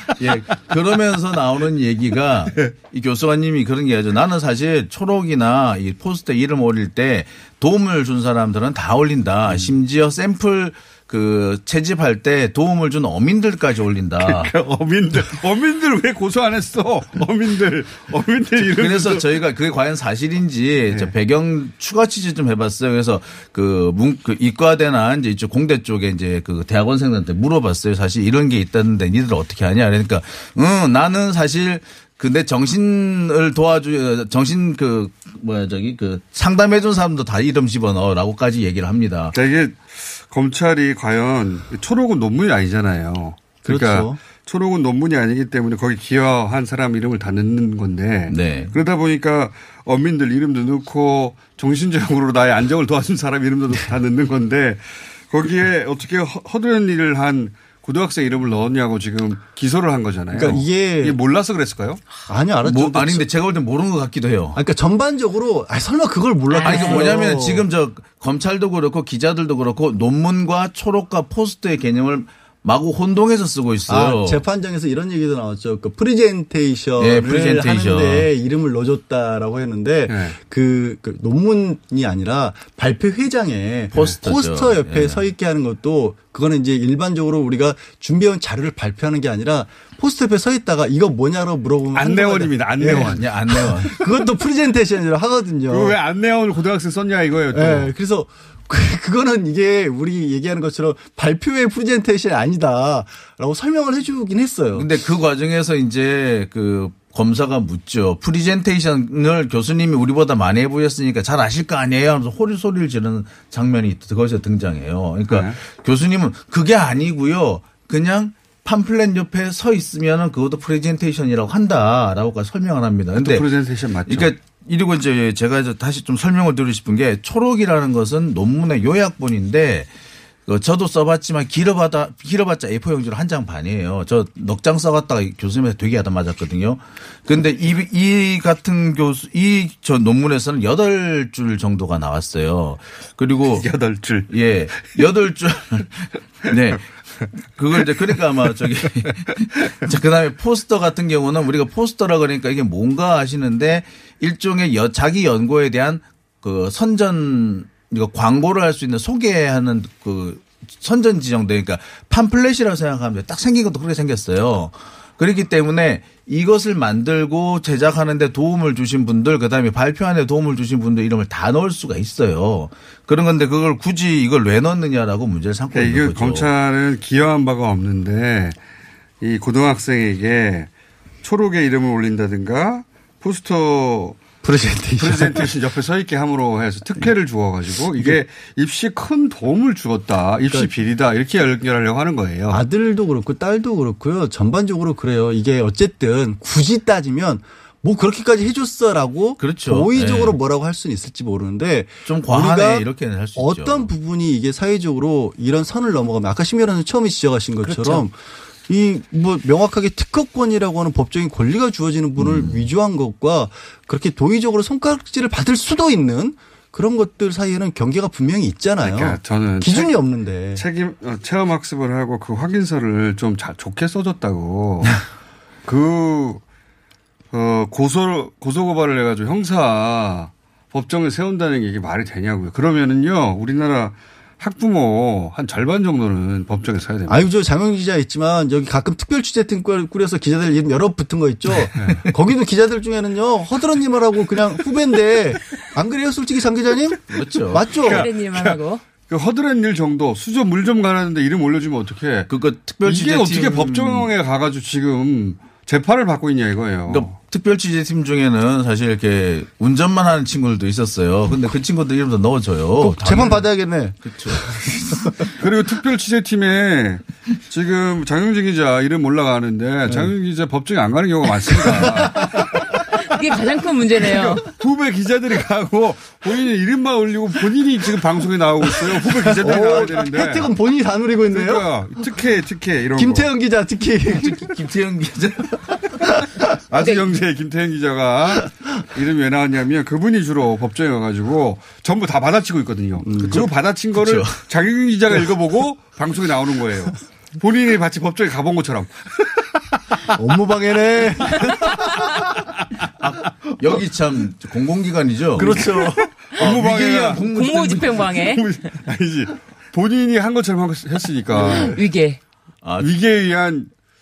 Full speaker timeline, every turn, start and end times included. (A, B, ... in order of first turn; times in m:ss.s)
0:00.2-0:14.5 A
0:14.2-0:19.4 B
0:18.6-0:39.4 A
0:39.3-1:02.0 B
0:43.6-0:44.2 C
0:48.3-0:48.7 A
1:00.3-1:01.2 C
1:02.3-1:03.3 C
1:02.6-1:04.6 A
1:04.6-1:07.7 C
1:06.5-1:07.2 D
1:06.6-1:14.4 A
1:13.9-1:36.0 C
1:17.0-1:18.3 A
1:20.1-1:20.4 B
1:23.9-1:25.2 A
1:31.9-1:34.0 B
1:32.9-1:34.0 A
1:35.7-1:37.9 B
1:37.5-1:44.9 C
1:44.7-2:03.5 A
1:55.3-1:55.6 B
2:03.2-2:04.3 B
2:04.1-2:09.9 A
2:10.5-2:23.7 A
2:23.6-2:24.3 B
2:24.3-2:26.9 A
2:27.4-2:56.5 A
2:55.7-2:58.6 B
2:59.2-3:00.7 B
3:01.2-3:04.2 B
3:04.4-3:05.5 C
3:05.0-3:12.6 B
3:12.5-3:40.6 C
3:19.4-3:20.4 A
3:22.1-3:23.9 A
3:27.6-3:28.1 A
3:32.2-3:32.7 A
3:38.8-3:39.9 B
3:40.5-3:45.0 B
3:45.7-3:46.4 B
3:47.3-3:57.3 B
3:57.1-4:08.1 C
4:07.1-4:07.7 A
4:07.8-4:12.3 B
4:07.8-4:08.8 D
4:12.3-4:14.1 A
4:12.8-4:17.2 B
4:16.9-4:23.5 A
4:22.8-4:25.1 C
4:24.0-4:25.1 A
4:25.4-4:32.8 B
4:31.6-4:32.3 C
4:32.9-4:34.4 D
4:34.0-4:40.5 B
4:38.8-4:42.0 C
4:41.3-4:43.3 B
4:43.0-4:44.6 C
4:44.1-4:46.0 A
4:46.7-4:59.0 B
4:53.0-4:53.5 C
4:53.2-4:54.4 A
5:00.1-5:02.1 C
5:03.0-5:08.0 A
5:05.4-5:06.1 C
5:06.3-5:07.2 B
5:07.3-5:08.4 D
5:08.0-5:11.8 B
5:11.4-5:11.7 A
5:11.5-5:12.2 D
5:12.6-5:12.9 A
5:12.8-5:13.7 B